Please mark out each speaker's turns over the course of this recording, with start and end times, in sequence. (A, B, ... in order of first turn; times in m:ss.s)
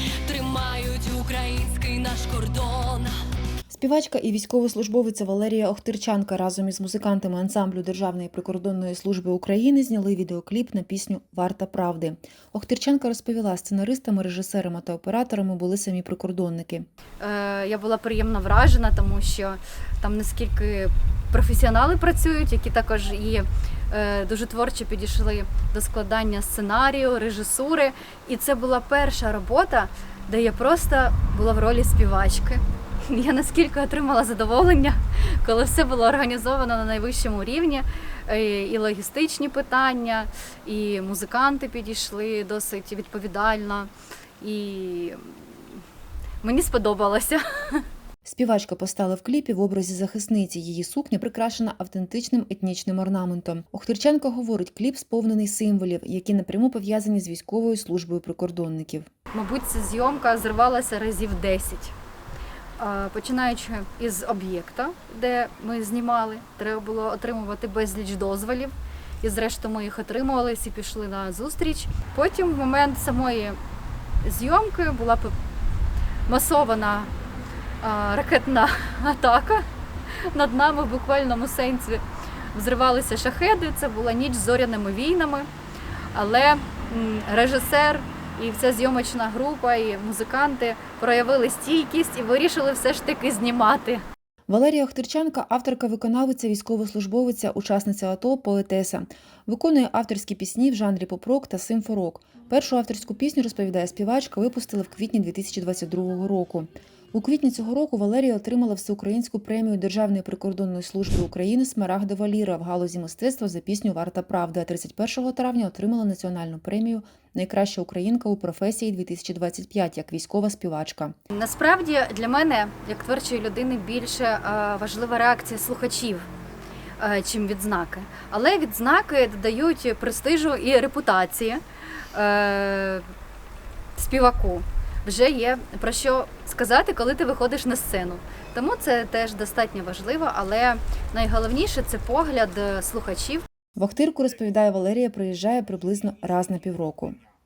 0:00.2-0:03.1 A
0:03.7-0:16.9 B
0:17.2-0:45.3 C
0:46.4-0:47.8 C
0:48.2-0:59.1 B
0:59.3-1:01.9 C
1:02.8-1:13.6 C
1:14.2-1:15.3 C
1:16.3-1:17.1 C
1:17.8-1:19.6 C
1:20.2-1:25.5 C
1:26.1-1:34.0 C
1:34.5-2:01.1 B
2:01.3-2:06.3 C
2:07.0-2:11.6 C
2:12.1-2:13.1 C
2:14.0-2:23.4 C
2:23.8-2:27.2 B